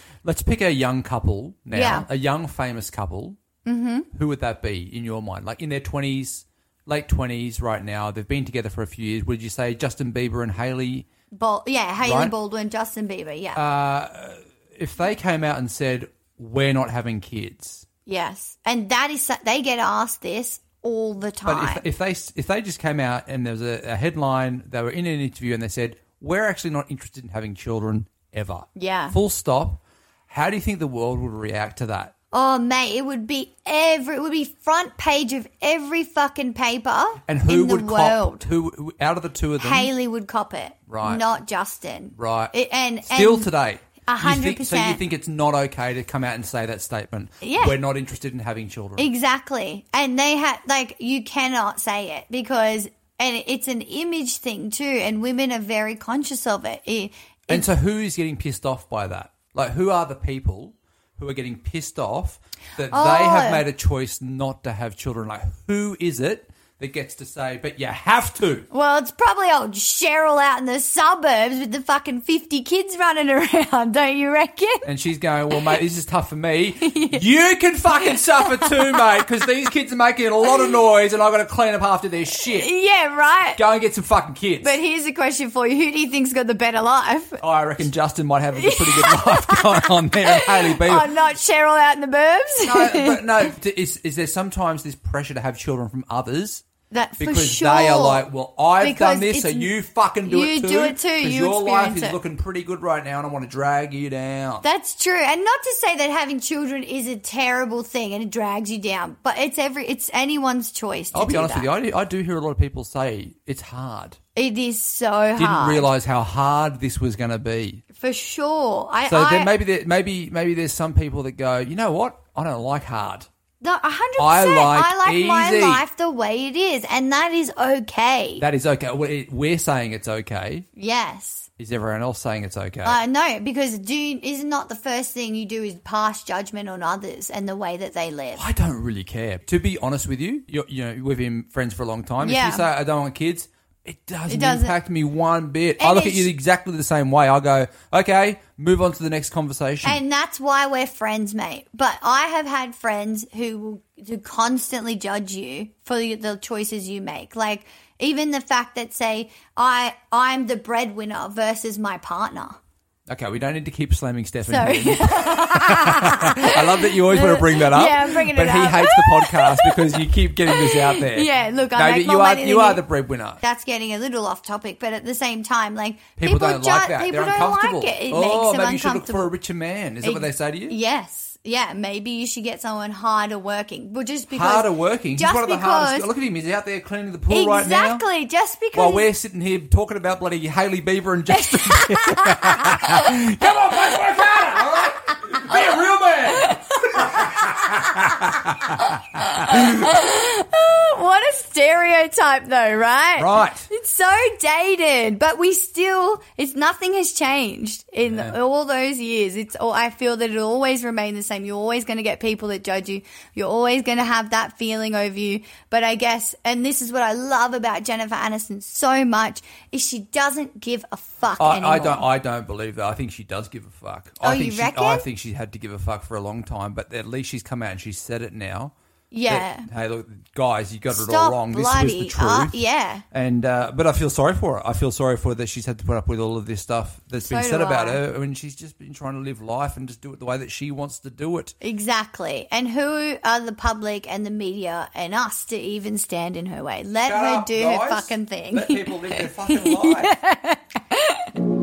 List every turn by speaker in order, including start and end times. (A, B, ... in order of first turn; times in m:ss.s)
0:00.2-0:03.4 A
0:01.7-0:02.1 B
0:03.6-0:04.1 B
0:04.1-0:11.0 A
0:11.3-0:13.6 B
0:12.0-0:12.3 A
0:13.5-0:17.8 A
0:18.0-0:21.8 B
0:21.4-0:32.1 A
0:28.8-0:29.2 B
0:32.3-0:38.4 B
0:37.3-0:39.9 A
0:39.6-0:43.5 B
0:40.9-0:41.2 A
0:42.2-0:42.5 A
0:43.1-0:49.1 A
0:44.1-0:45.0 B
0:47.4-0:47.8 B
0:49.0-0:57.7 B
0:57.5-1:08.7 A
1:02.9-1:03.6 B
1:08.7-1:14.9 B
1:14.8-1:22.7 A
1:16.8-1:17.2 B
1:18.0-1:19.1 B
1:22.5-1:23.6 B
1:23.5-1:24.8 A
1:24.6-1:27.4 B
1:27.4-1:31.1 A
1:28.6-1:33.3 B
1:32.6-1:36.6 A
1:36.9-1:38.2 B
1:37.2-1:44.6 A
1:38.8-1:39.7 B
1:40.2-1:42.2 B
1:44.6-1:51.7 B
1:51.1-1:54.2 A
1:54.3-1:55.9 B
1:55.4-1:57.8 A
1:58.0-1:59.5 B
1:59.0-2:03.3 A
2:03.6-2:08.4 B
2:04.2-2:05.8 A
2:08.4-2:10.6 A
2:10.8-2:11.5 B
2:11.6-2:13.0 A
2:12.8-2:18.4 B
2:18.4-2:30.0 A
2:22.2-2:22.7 B
2:24.3-2:24.8 B
2:25.8-2:26.3 B
2:29.8-2:42.6 B
2:43.1-2:53.4 A
2:44.4-2:52.8 B
2:53.4-2:59.3 B
2:56.2-3:00.8 A
3:00.0-3:06.1 B
3:04.3-3:08.0 A
3:07.3-3:09.1 B
3:08.7-3:18.7 A
3:11.3-3:12.6 B
3:16.3-3:17.2 B
3:19.2-3:42.0 B
3:23.2-3:23.7 A
3:28.0-3:28.4 A
3:41.4-3:48.7 A
3:44.2-3:45.0 B
3:49.1-3:49.7 B
3:49.3-3:52.6 A
3:50.9-3:53.0 B
3:53.1-4:01.5 A
3:57.3-3:58.0 B
4:01.6-4:11.3 B
4:07.0-4:10.1 A